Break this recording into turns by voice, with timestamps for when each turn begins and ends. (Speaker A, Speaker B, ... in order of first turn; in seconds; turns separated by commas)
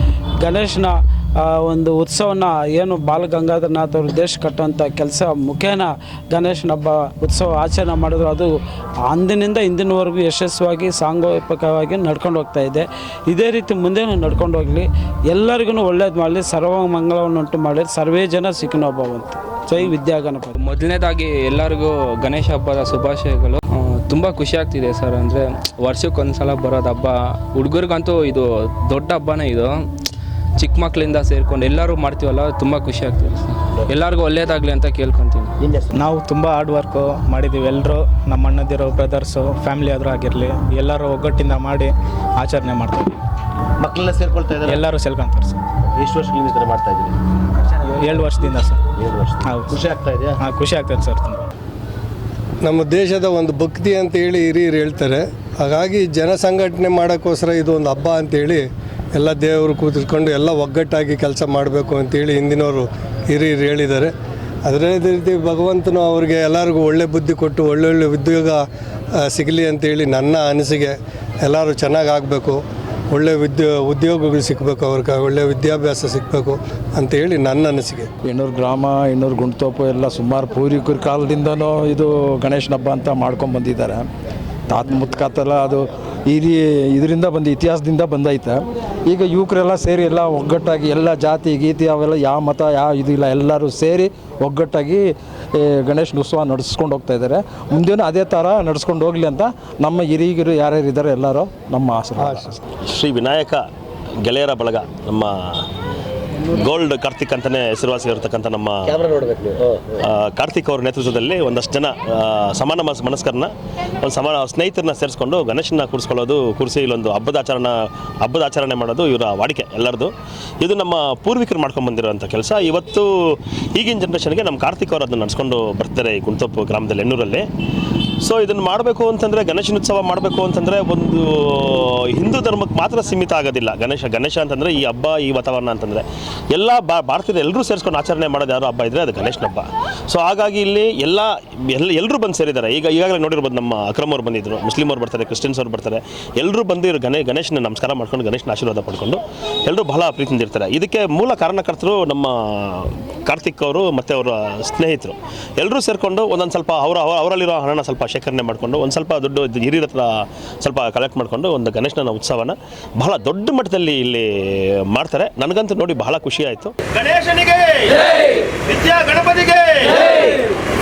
Speaker A: 0.4-20.6, Speaker B: 20.6-29.9, Speaker B: 30.6-35.5, Speaker C: 35.6-36.0, Speaker D: 35.9-43.1, Speaker C: 43.8-44.8, Speaker D: 44.6-45.6, Speaker C: 45.9-47.2, Speaker D: 47.9-48.8, Speaker C: 49.0-50.4, Speaker D: 49.4-49.7, Speaker D: 50.4-51.4, Speaker E: 52.6-64.1, Speaker E: 64.6-68.6, Speaker E: 69.3-78.1, Speaker F: 78.2-84.1, Speaker F: 84.7-102.6, Speaker E: 102.2-102.5, Speaker G: 102.8-103.6, Speaker G: 104.2-105.7, Speaker G: 106.5-108.9, Speaker C: 108.9-110.0, Speaker G: 110.0-123.1, Speaker G: 123.8-127.5, Speaker G: 128.2-160.1, Speaker G: 160.6-170.3